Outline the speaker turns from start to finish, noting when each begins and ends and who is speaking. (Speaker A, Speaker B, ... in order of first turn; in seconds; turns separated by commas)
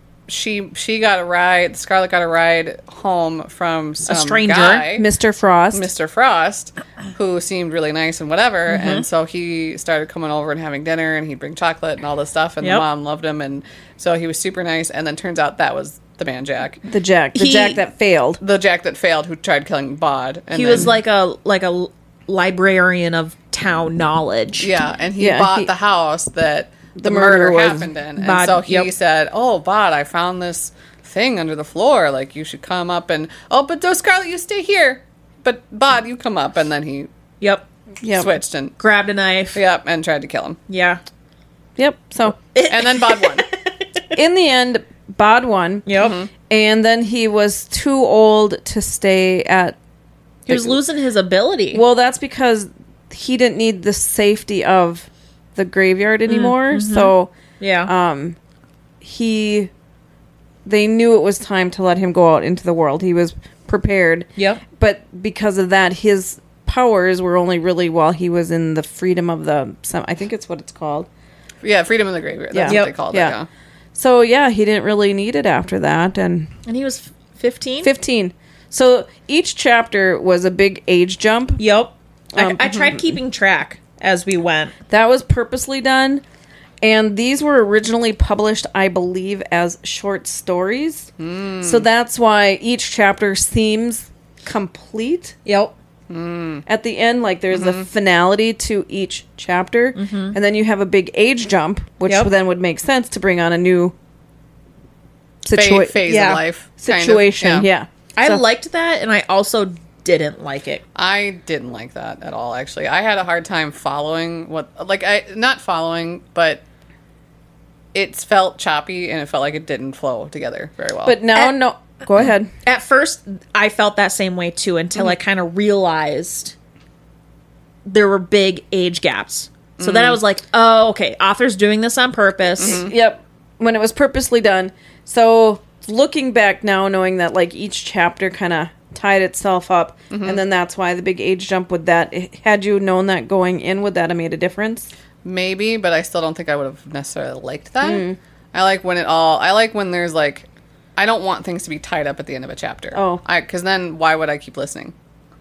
Speaker A: 0.3-5.0, Speaker B: 4.1-4.9, Speaker C: 5.0-5.9, Speaker A: 5.7-16.8, Speaker B: 8.7-9.0, Speaker C: 16.9-18.4, Speaker B: 17.3-17.8, Speaker A: 18.4-20.9, Speaker B: 20.5-24.7, Speaker A: 24.6-37.1, Speaker C: 25.2-25.7, Speaker C: 27.0-27.9, Speaker B: 28.2-28.9, Speaker C: 38.0-38.3, Speaker A: 38.1-38.7, Speaker B: 38.8-39.6, Speaker A: 39.5-40.6, Speaker B: 40.7-41.0, Speaker C: 41.8-42.4, Speaker B: 42.5-44.1, Speaker A: 42.7-43.5, Speaker C: 44.1-45.9, Speaker B: 45.9-46.1, Speaker A: 46.0-46.3, Speaker C: 46.4-49.8, Speaker C: 50.5-50.8, Speaker B: 50.5-51.8, Speaker C: 51.7-57.3, Speaker B: 56.3-57.9, Speaker C: 57.9-58.4, Speaker C: 59.0-59.7, Speaker C: 60.6-71.1, Speaker B: 64.4-64.6, Speaker A: 71.6-73.5, Speaker C: 72.5-73.3, Speaker B: 72.7-72.9, Speaker C: 73.9-76.5, Speaker B: 76.7-77.9, Speaker C: 77.8-81.6, Speaker B: 81.6-84.7, Speaker C: 82.3-83.1, Speaker C: 84.9-86.2, Speaker C: 86.8-91.1, Speaker A: 91.2-91.9, Speaker C: 91.6-95.3, Speaker B: 95.5-95.7, Speaker A: 96.1-96.6, Speaker C: 96.7-103.9, Speaker A: 97.5-97.8, Speaker B: 99.9-100.3, Speaker C: 105.4-106.0, Speaker A: 105.5-107.7, Speaker B: 106.0-106.4, Speaker C: 106.8-108.4, Speaker B: 108.2-110.8, Speaker A: 111.0-116.6, Speaker A: 117.9-121.2, Speaker C: 121.0-122.5, Speaker B: 122.6-126.5, Speaker B: 127.8-132.8, Speaker A: 129.8-130.2, Speaker A: 132.6-132.9, Speaker C: 132.6-144.9, Speaker A: 140.1-140.4, Speaker A: 145.2-154.9, Speaker C: 147.8-148.2, Speaker C: 152.9-153.2